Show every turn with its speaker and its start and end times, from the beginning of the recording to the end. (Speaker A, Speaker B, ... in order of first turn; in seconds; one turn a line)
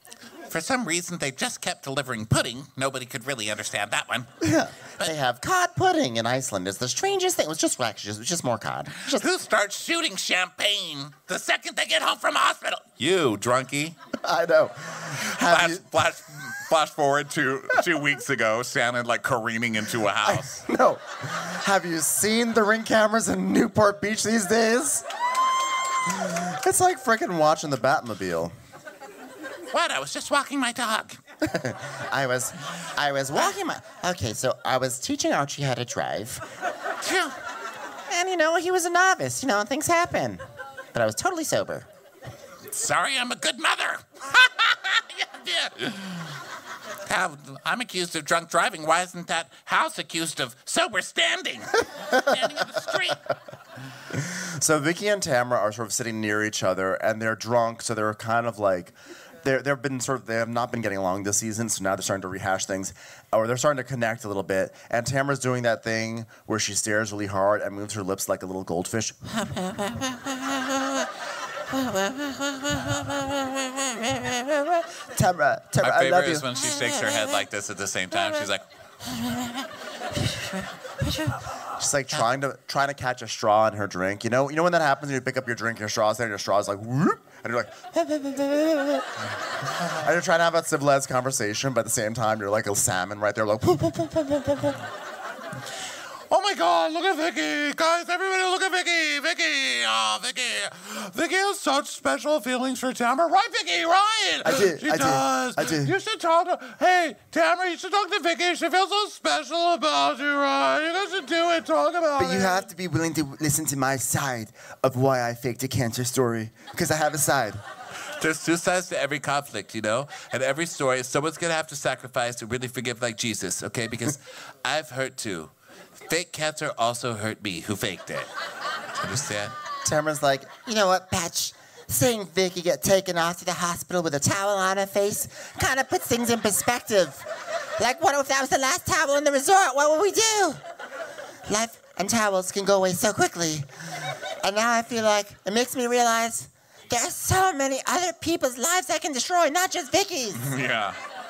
Speaker A: 0.5-4.3
Speaker B: 4.4-4.7
Speaker C: 5.0-9.2
Speaker A: 9.1-13.9
Speaker B: 14.2-15.8
Speaker A: 15.4-20.6
Speaker B: 20.2-25.0
Speaker B: 26.1-28.5
Speaker A: 29.7-31.2
Speaker B: 31.4-32.5
Speaker C: 32.1-36.4
Speaker A: 37.0-37.3
Speaker C: 38.1-41.9
Speaker A: 42.7-46.2
Speaker A: 47.0-53.2
Speaker B: 54.1-69.2
Speaker C: 74.2-74.8
Speaker B: 75.1-76.5
Speaker A: 75.8-78.6
Speaker C: 76.6-77.1
Speaker C: 81.0-81.3
Speaker B: 81.8-89.0
Speaker B: 90.0-94.8
Speaker A: 96.3-112.6
Speaker B: 104.4-106.0
Speaker B: 112.2-117.6
Speaker A: 118.2-125.5
Speaker A: 126.0-128.3
Speaker A: 129.0-129.5
Speaker C: 129.9-137.2
Speaker C: 137.8-140.6
Speaker C: 141.5-143.7
Speaker C: 144.4-150.5
Speaker A: 150.4-151.0